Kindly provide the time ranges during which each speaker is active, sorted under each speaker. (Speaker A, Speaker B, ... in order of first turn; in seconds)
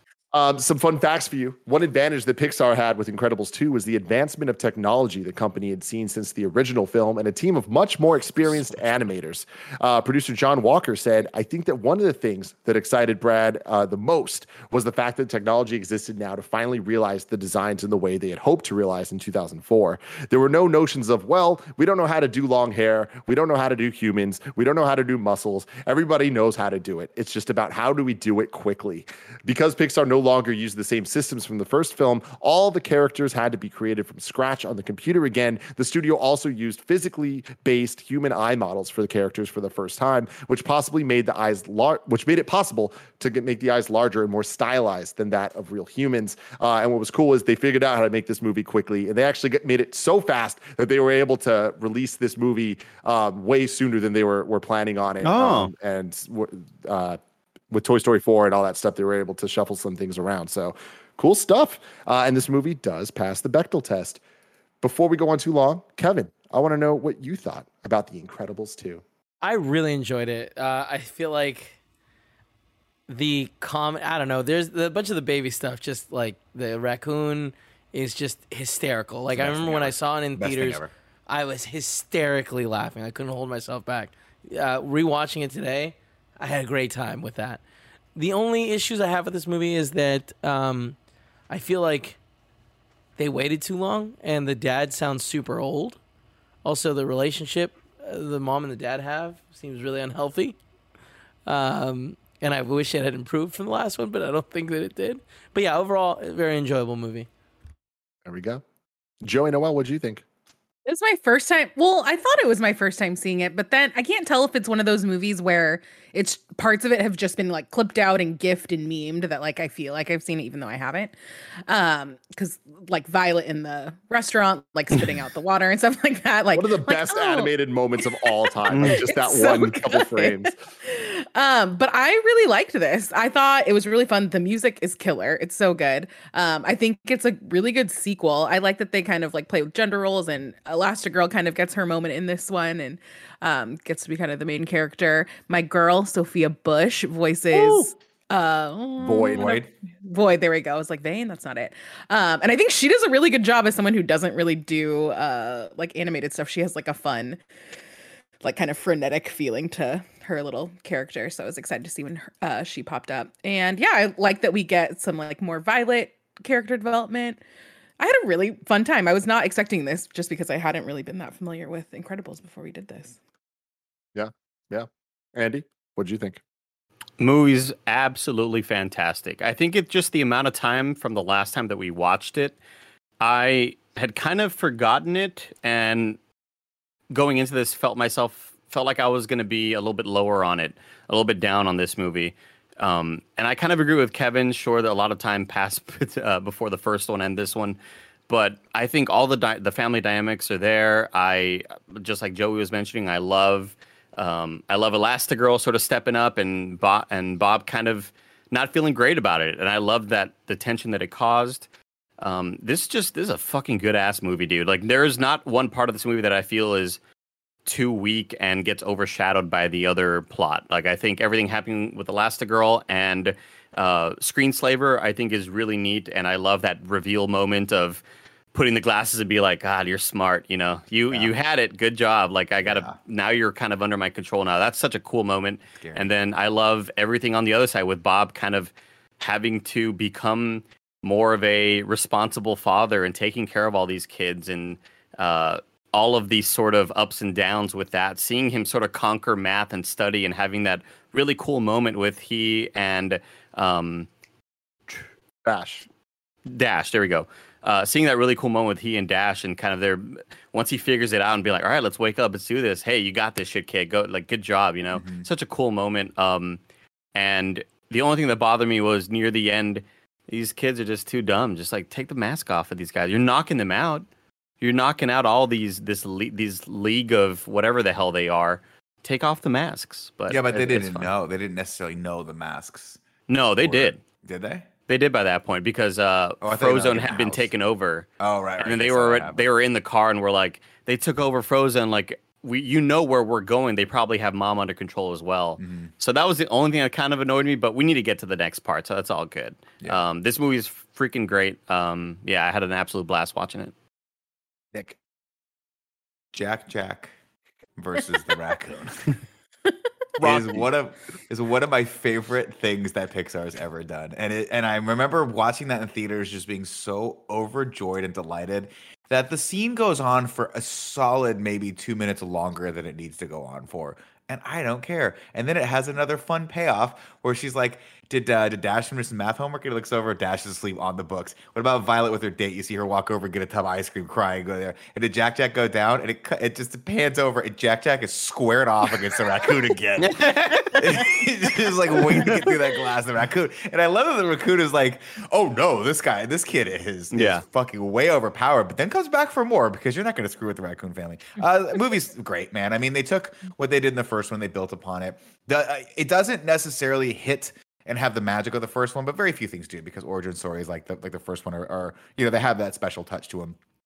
Speaker A: 0.3-57.2, 57.7-64.2, 64.8-69.0, 108.2-108.6, 109.2-110.2, 126.5-130.5, 149.0-149.4, 174.1-176.4, 255.4-255.8, 310.2-310.6
Speaker B: 55.2-55.7, 128.7-129.0, 177.2-182.6, 183.2-186.2, 187.1-197.8, 198.3-211.7, 212.2-217.0, 217.7-228.0, 228.5-254.1, 256.5-266.6, 267.1-274.1, 274.6-281.1, 283.3-284.0, 284.9-288.1, 288.6-303.7, 340.0-341.2, 341.9-342.5, 347.1-347.4
Speaker C: 69.4-71.8, 73.1-87.6, 88.1-91.0, 91.5-92.2, 93.2-96.0, 96.6-100.6, 101.5-107.3
Speaker D: 79.3-80.9, 149.2-149.7, 232.6-232.9, 235.8-236.1, 264.9-265.2, 280.3-283.0, 283.6-284.7, 286.4-287.5, 288.2-289.4, 295.6-295.9, 306.3-307.1, 307.8-309.2, 310.2-340.2, 340.7-363.6
Speaker E: 110.8-121.1, 121.7-127.5, 128.0-157.4, 158.4-167.4, 168.0-173.2